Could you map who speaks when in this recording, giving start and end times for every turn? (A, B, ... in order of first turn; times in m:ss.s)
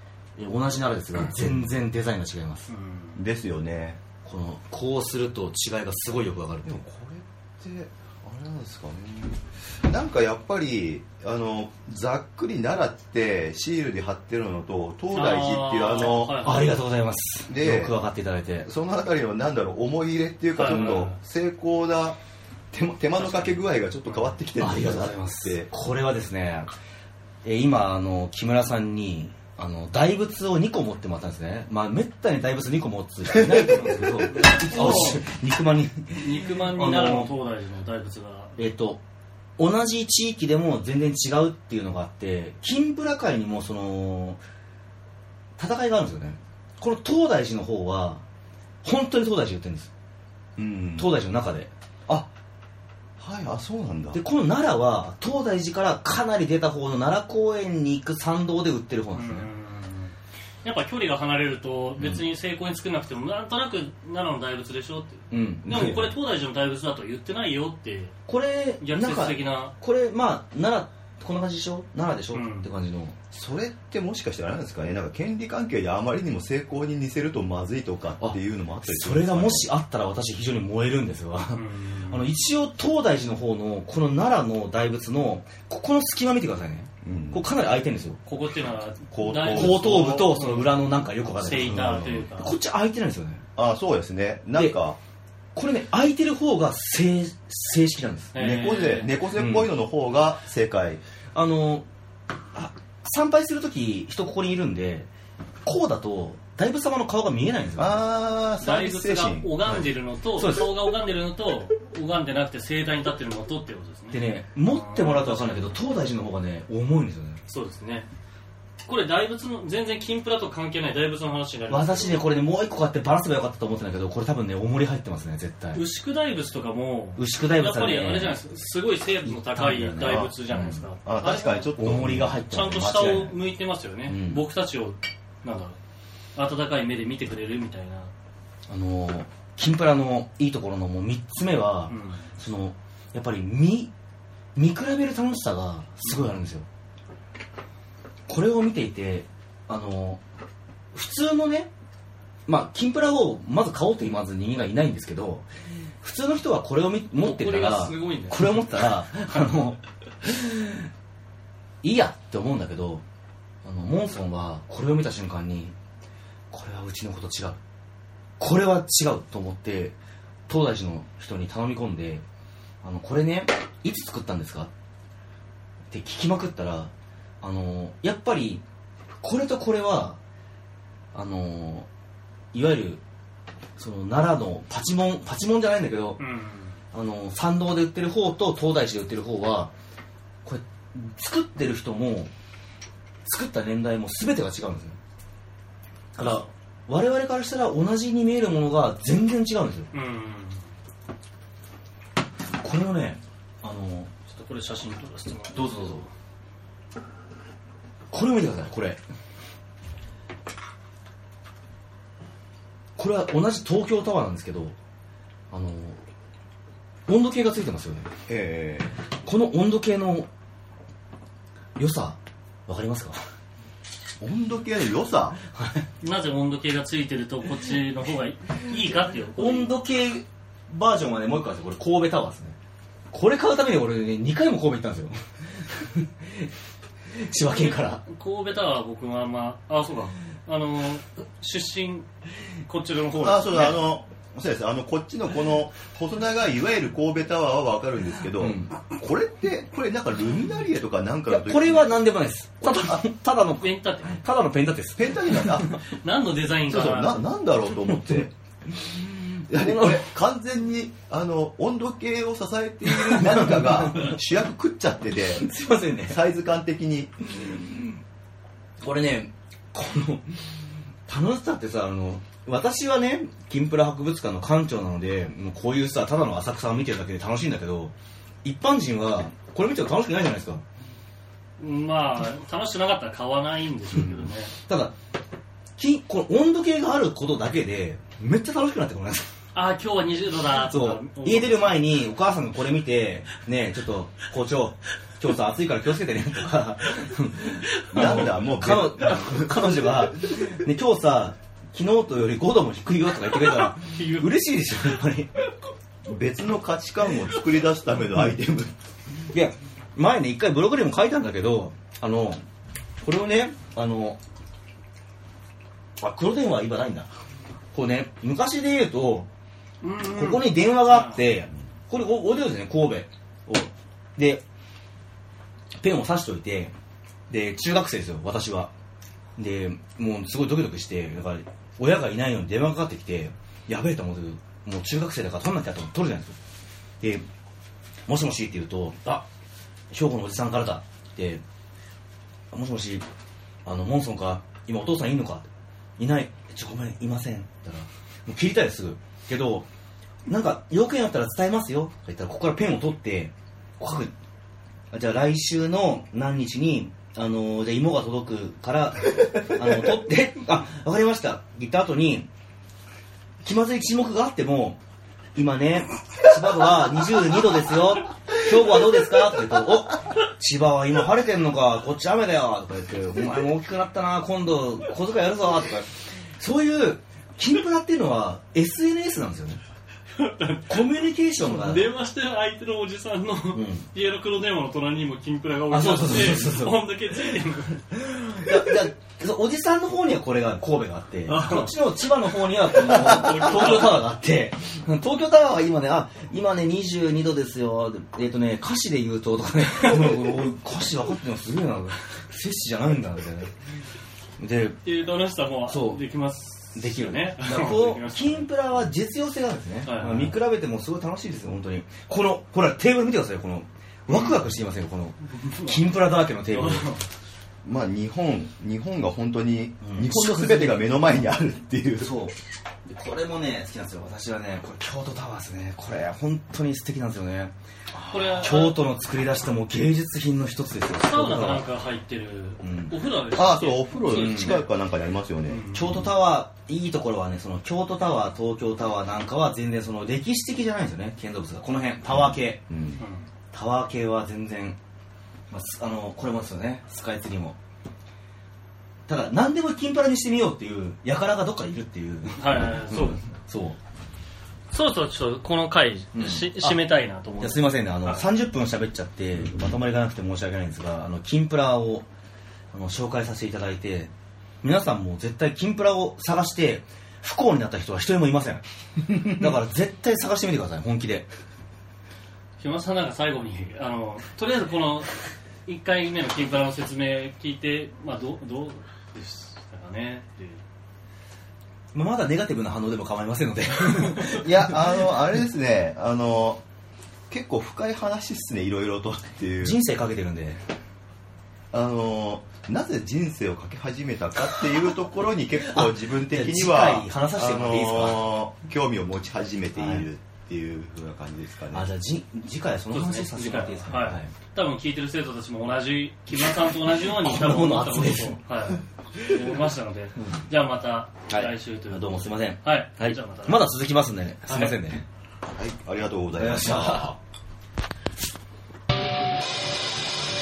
0:00.4-0:02.7 A
0:02.7-0:03.2 B
0:03.2-0:04.0 C
0:04.2-0:06.8 A
0:06.6-0:16.4 C
0:15.1-0:16.7 B
0:16.3-0:18.7 A
0:17.5-0:18.0 C
0:18.6-0:22.2 C
0:20.5-0:21.2 B
0:22.7-0:25.7 C
0:23.2-0:24.4 B
0:24.6-0:26.7 A
0:27.4-0:37.3 A
0:33.4-0:34.4 C
0:34.2-0:35.2 B
0:36.2-0:38.6 B
0:38.6-0:39.0 A
0:39.6-0:44.4 A
0:45.6-0:48.2 A
0:48.8-0:49.9 A
0:50.6-0:51.1 C
0:51.0-0:51.7 A
0:53.2-0:54.2 C
0:54.1-0:59.5 A
0:59.1-1:08.1 B
1:02.0-1:02.2 A
1:05.3-1:06.1 A
1:08.3-1:13.2 A
1:08.8-1:09.7 B
1:12.3-1:12.7 B
1:13.3-1:19.7 C
1:18.2-1:28.2 A
1:21.5-1:22.3 B
1:27.0-1:27.5 C
1:28.2-1:30.9 B
1:29.1-1:30.4 C
1:29.4-1:33.4 A
1:31.4-1:32.6 B
1:31.5-1:32.3 C
1:33.6-1:35.0 C
1:35.6-1:38.4 A
1:38.3-1:39.1 B
1:38.4-1:41.0 C
1:39.4-1:39.7 A
1:41.3-1:41.9 A
1:42.5-1:45.1 A
1:45.6-1:48.1 A
1:47.8-1:49.6 C
1:48.6-1:55.8 B
1:49.6-1:50.7 A
1:54.1-1:57.4 A
1:57.5-1:58.1 B
1:58.9-2:02.2 B
2:01.7-2:05.8 A
2:05.7-2:11.8 B
2:07.2-2:08.4 A
2:09.2-2:10.8 A
2:10.0-2:12.4 C
2:11.8-2:13.4 A
2:12.5-2:15.8 B
2:14.1-2:14.4 A
2:16.4-2:18.1 B
2:18.7-2:23.9 A
2:21.9-2:22.3 B
2:24.6-2:26.6 A
2:26.0-2:26.4 B
2:28.3-2:30.2 A
2:30.9-2:31.7 A
2:32.5-2:35.5 A
2:36.0-2:40.9 A
2:37.2-2:38.6 B
2:41.8-2:43.0 A
2:43.6-2:45.8 A
2:46.5-2:47.6 A
2:48.4-2:50.0 A
2:50.5-2:52.2 A
2:52.8-2:54.7 A
2:55.9-2:58.6 A
2:59.2-3:00.2 A
3:01.1-3:01.9 A
3:02.5-3:03.0 A
3:03.8-3:06.2 A
3:06.2-3:06.8 B
3:06.9-3:09.7 A
3:10.4-3:12.3 A
3:13.2-3:15.0 A
3:16.1-3:19.9 A
3:19.9-3:20.7 B
3:22.6-3:24.1 A
3:24.3-3:26.1 B
3:25.5-3:26.1 A
3:28.1-3:29.0 A
3:33.0-3:34.8 A
3:35.5-3:36.0 A
3:37.1-3:38.1 A
3:38.3-3:39.0 C
3:39.2-3:40.3 A
3:41.8-3:43.2 A
3:44.2-3:45.4 C
3:45.4-3:45.9 A
3:46.0-3:49.7 B
3:49.3-3:52.6 A
3:53.1-3:56.5 A
3:57.1-3:58.0 A
3:58.0-4:02.1 B
4:02.6-4:03.8 B
4:03.2-4:12.0 C
4:08.4-4:08.7 A
4:11.3-4:15.7 A
4:13.6-4:14.2 B
4:15.0-4:15.8 C
4:15.8-4:17.3 B
4:16.7-4:18.3 C
4:17.9-4:20.1 A
4:19.5-4:27.3 C
4:22.9-4:24.2 A
4:25.3-4:26.2 A
4:27.4-4:28.0 A
4:28.8-4:30.6 A
4:31.1-4:40.6 A
4:41.6-4:44.5 B
4:44.6-4:44.9 A
4:45.8-4:49.3 A
4:49.5-4:51.7 B
4:50.6-5:05.4 A
4:57.9-4:59.7 C
5:03.7-5:04.3 B
5:06.0-5:08.7 C
5:09.3-5:12.4 A
5:13.0-5:14.2 A
5:16.0-5:17.1 A
5:17.7-5:19.3 A
5:19.8-5:21.2 B
5:20.0-5:24.4 A
5:25.8-5:26.7 A
5:27.3-5:28.7 A
5:29.4-5:36.4 A
5:38.1-5:39.3 A
5:39.9-5:41.4 A
5:42.5-5:43.0 A
5:43.6-5:49.6 A
5:50.3-5:54.1 A
5:54.9-6:02.3 A
6:03.4-6:04.8 A
6:05.4-6:19.6 A
6:20.1-6:27.9 B
6:20.7-6:21.9 A
6:23.5-6:23.9 A
6:25.7-6:26.8 A
6:27.9-6:43.5 A
6:31.3-6:31.8 B
6:32.7-6:34.0 B
6:44.4-6:44.8 A
6:44.8-6:48.5 B
6:45.7-6:46.0 A
6:46.8-6:56.9 A
6:49.8-6:50.4 B
6:54.1-6:54.4 B
6:55.3-6:55.9 B
6:56.5-6:57.0 B
6:57.6-7:02.2 C
6:59.8-7:01.0 A
7:02.0-7:07.5 A
7:07.9-7:08.5 C
7:08.1-7:08.8 B
7:08.4-7:11.7 A
7:10.9-7:14.7 B
7:12.6-7:12.9 A
7:13.3-7:15.7 C
7:14.1-7:14.6 A
7:15.5-7:16.1 B
7:15.7-7:22.6 A
7:22.1-7:23.0 C
7:23.0-7:23.3 B
7:23.5-7:24.8 A
7:25.5-7:27.6 A
7:29.1-7:33.8 A
7:32.4-7:33.2 B
7:34.7-7:38.3 B
7:36.1-7:36.8 A
7:37.4-7:42.1 A
7:42.7-7:44.1 A
7:44.6-7:51.3 A
7:52.6-8:00.6 B
8:01.9-8:05.2 A
8:04.1-8:04.3 B
8:04.4-8:06.6 C
8:07.3-8:09.8 C
8:09.6-8:10.6 A
8:11.7-8:21.9 C
8:15.6-8:18.3 A
8:19.8-8:20.1 A
8:21.7-8:24.3 A
8:22.9-8:33.7 B
8:26.3-8:29.4 A
8:30.2-8:30.4 A
8:31.3-8:35.0 A
8:34.5-8:34.8 B
8:35.5-8:37.1 C
8:36.4-8:37.2 A